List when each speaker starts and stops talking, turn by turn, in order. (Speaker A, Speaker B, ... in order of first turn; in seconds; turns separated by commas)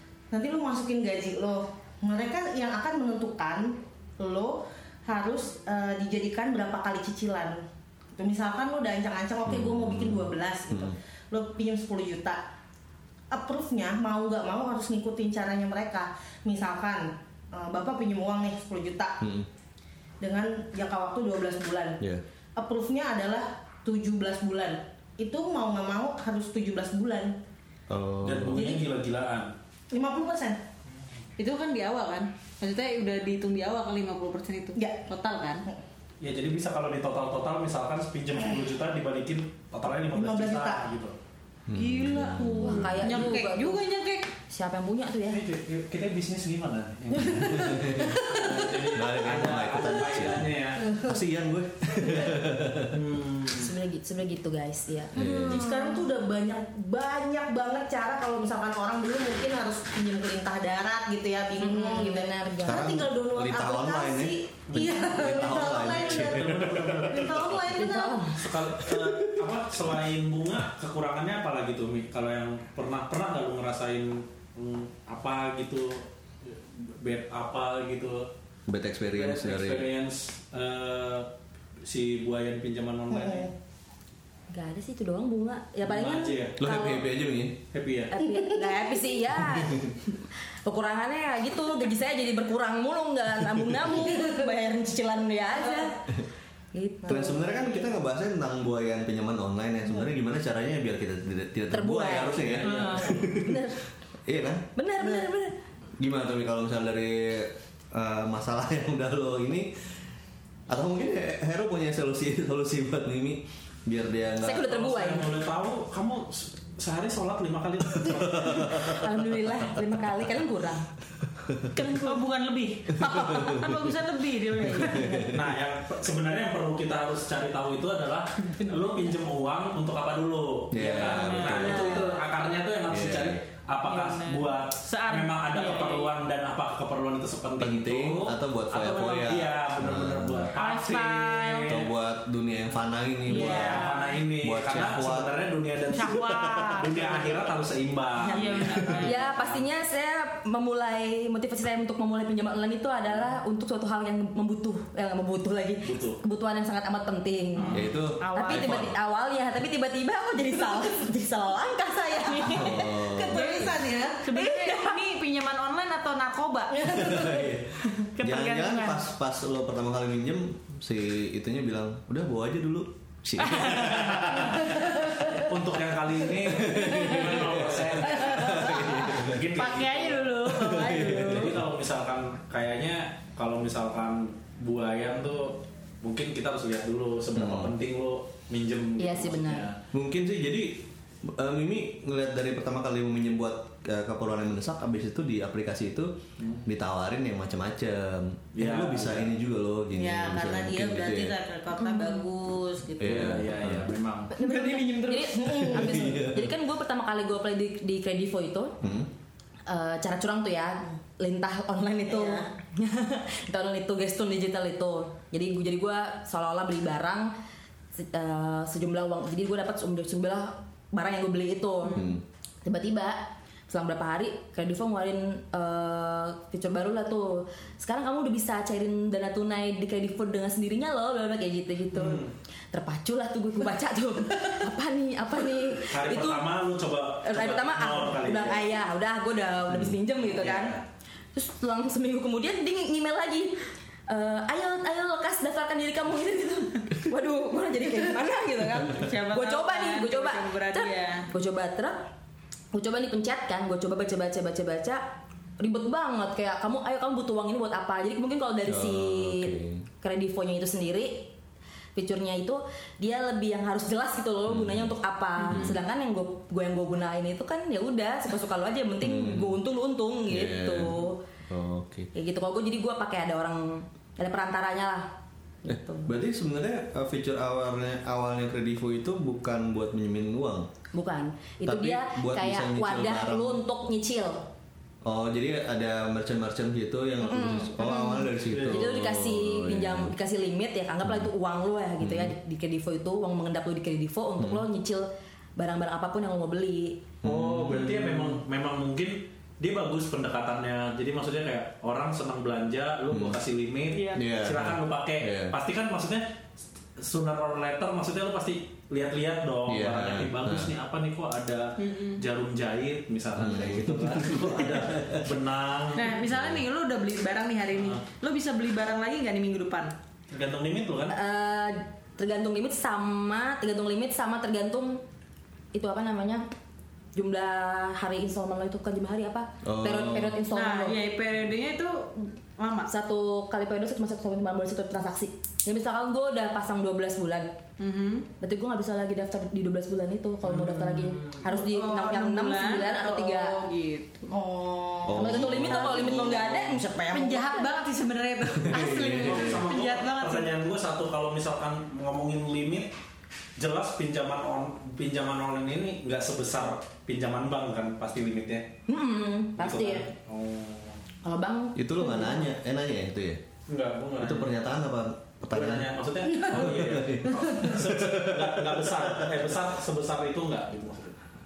Speaker A: 0.3-12.4, Speaker B: 9.4-11.0, Speaker A: 13.3-19.2, Speaker B: 19.2-19.5, Speaker A: 20.2-22.0, Speaker A: 22.6-27.4, Speaker B: 27.9-28.8, Speaker C: 28.2-29.5, Speaker A: 28.5-28.9, Speaker A: 29.9-30.6, Speaker D: 31.4-35.6, Speaker A: 34.8-35.1, Speaker C: 36.2-41.1, Speaker A: 40.1-40.9, Speaker B: 41.7-43.1, Speaker D: 41.8-44.3, Speaker E: 42.4-43.9, Speaker E: 44.5-45.4, Speaker C: 45.3-51.0, Speaker B: 47.2-53.0, Speaker C: 52.9-53.7, Speaker E: 53.5-56.0, Speaker B: 55.1-55.7, Speaker A: 55.5-68.3, Speaker E: 61.6-63.0, Speaker B: 62.6-67.1, Speaker C: 64.7-67.7, Speaker E: 67.8-68.5, Speaker C: 68.4-78.3, Speaker B: 78.7-79.9, Speaker C: 79.1-81.3, Speaker C: 81.9-83.5, Speaker A: 83.1-83.5, Speaker E: 84.5-87.1, Speaker C: 85.8-86.6, Speaker B: 86.6-87.6, Speaker C: 87.7-88.2, Speaker E: 88.1-96.0, Speaker A: 88.2-88.7, Speaker E: 96.7-97.6, Speaker B: 97.1-103.7, Speaker A: 97.1-97.5, Speaker E: 101.7-103.8, Speaker C: 102.6-103.3, Speaker D: 102.7-103.2, Speaker B: 104.3-104.7, Speaker E: 104.8-105.6, Speaker B: 106.0-109.8, Speaker B: 110.7-114.7, Speaker E: 114.4-115.3, Speaker C: 114.6-119.0, Speaker B: 118.4-119.0, Speaker E: 118.7-120.9, Speaker E: 121.8-122.3, Speaker D: 121.8-125.3, Speaker B: 123.0-123.9, Speaker B: 124.6-125.5, Speaker C: 125.3-141.9, Speaker B: 130.7-132.1, Speaker D: 131.0-132.2, Speaker B: 132.9-133.4, Speaker D: 133.8-136.1, Speaker B: 137.6-140.5, Speaker D: 140.6-141.8, Speaker B: 141.7-145.3, Speaker D: 143.3-144.2, Speaker C: 143.3-149.6, Speaker D: 145.9-147.4, Speaker D: 148.2-149.3, Speaker E: 149.0-162.9, Speaker C: 155.8-156.2, Speaker D: 157.6-158.8, Speaker B: 157.7-158.9, Speaker A: 162.3-164.4, Speaker B: 162.5-163.7, Speaker D: 163.3-167.0, Speaker E: 164.3-165.0, Speaker A: 166.8-167.6, Speaker B: 166.8-174.9, Speaker D: 167.9-169.1, Speaker C: 173.5-174.7, Speaker C: 175.3-189.8, Speaker B: 176.4-179.5, Speaker D: 179.6-181.3, Speaker B: 180.5-181.6, Speaker B: 187.3-187.7, Speaker E: 189.0-189.7, Speaker B: 189.9-201.4, Speaker C: 196.4-196.7, Speaker C: 198.6-199.3, Speaker A: 199.9-203.4, Speaker B: 203.0-203.9, Speaker C: 203.0-204.3, Speaker D: 204.3-205.6, Speaker E: 204.4-208.8, Speaker A: 205.3-206.2, Speaker B: 205.4-206.6, Speaker B: 208.8-209.1, Speaker E: 209.7-217.3, Speaker A: 212.1-212.5, Speaker E: 218.0-222.1, Speaker D: 221.8-222.2, Speaker B: 221.9-222.2, Speaker E: 222.7-236.5, Speaker C: 231.9-232.3, Speaker C: 235.8-238.8, Speaker E: 237.2-240.8, Speaker C: 240.2-240.8, Speaker E: 241.3-243.6, Speaker E: 244.1-252.1, Speaker D: 248.9-251.3, Speaker E: 252.7-261.3, Speaker B: 258.6-259.9, Speaker E: 262.0-271.2, Speaker B: 264.5-264.9, Speaker B: 265.5-265.8, Speaker B: 269.0-269.6, Speaker B: 270.3-272.1, Speaker E: 272.1-275.1, Speaker E: 275.6-276.1, Speaker B: 275.7-280.7, Speaker E: 280.9-284.4, Speaker B: 281.7-283.6, Speaker B: 285.1-290.1, Speaker E: 287.2-297.0, Speaker C: 288.5-288.8, Speaker B: 291.1-291.3, Speaker B: 292.0-292.4, Speaker B: 297.2-298.4, Speaker C: 297.2-306.4, Speaker B: 303.1-303.4, Speaker D: 303.9-304.3, Speaker B: 304.1-305.6, Speaker C: 307.0-316.3, Speaker B: 309.7-310.7, Speaker D: 311.8-312.2, Speaker B: 313.4-315.3, Speaker D: 315.9-319.9, Speaker B: 316.3-316.6, Speaker C: 317.8-318.0, Speaker C: 320.3-321.1, Speaker E: 321.1-325.0, Speaker E: 325.7-326.4, Speaker E: 327.1-331.0, Speaker B: 329.6-330.4, Speaker D: 330.5-332.9, Speaker E: 332.9-337.6, Speaker D: 337.8-338.3, Speaker E: 338.4-343.7, Speaker C: 340.5-341.1, Speaker D: 341.1-344.3, Speaker A: 344.3-347.5, Speaker B: 345.1-346.6, Speaker E: 345.1-347.2, Speaker D: 345.7-346.2, Speaker D: 347.1-350.5, Speaker B: 348.6-349.7, Speaker C: 348.8-352.9, Speaker C: 353.6-358.7, Speaker E: 358.9-360.1, Speaker C: 359.6-361.0, Speaker E: 361.2-362.5, Speaker B: 361.8-363.4, Speaker C: 363.7-364.6, Speaker B: 364.2-369.4, Speaker C: 365.5-371.2